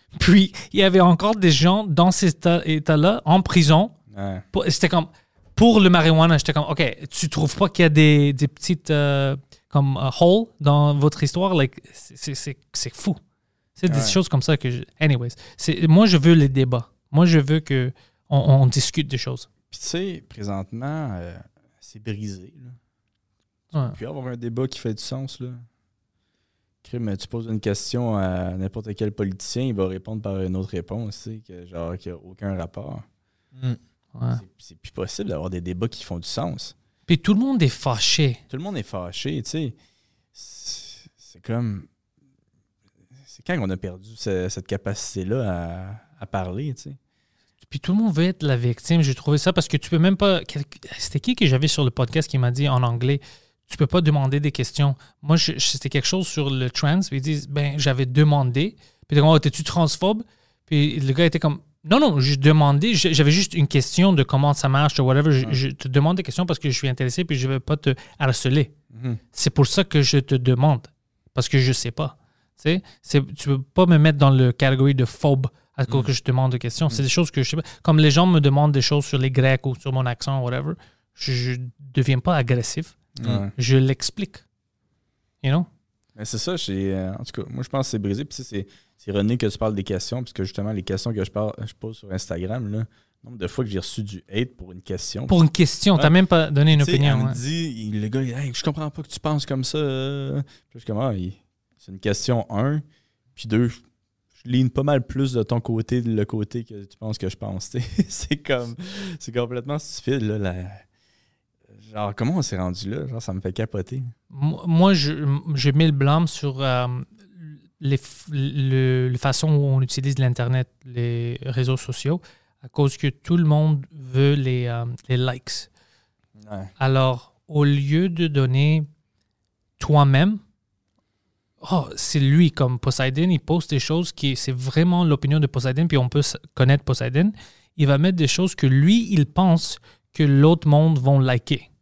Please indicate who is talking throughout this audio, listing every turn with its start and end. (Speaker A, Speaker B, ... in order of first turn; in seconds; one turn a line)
Speaker A: 0.1-3.9
Speaker B: 4.1-4.4
Speaker A: 4.5-13.2
Speaker A: 13.8-19.4
Speaker B: 13.9-14.2
Speaker B: 19.7-22.8
Speaker B: 23.9-25.6
Speaker B: 26.8-33.0
Speaker B: 34.3-36.7
Speaker A: 37.1-38.4
Speaker B: 38.5-39.8
Speaker B: 40.3-41.9
Speaker B: 43.3-47.0
Speaker A: 47.7-68.7
Speaker B: 68.9-69.2
Speaker A: 69.3-83.0
Speaker B: 83.2-83.5
Speaker A: 83.5-84.4
Speaker B: 86.2-95.3
Speaker A: 95.3-97.4
Speaker B: 96.7-102.8
Speaker B: 103.3-103.8
Speaker B: 104.4-110.8
Speaker B: 111.8-114.1
Speaker A: 114.3-125.7
Speaker B: 126.4-126.7
Speaker A: 126.8-128.9
Speaker A: 129.8-130.4
Speaker A: 131.6-141.7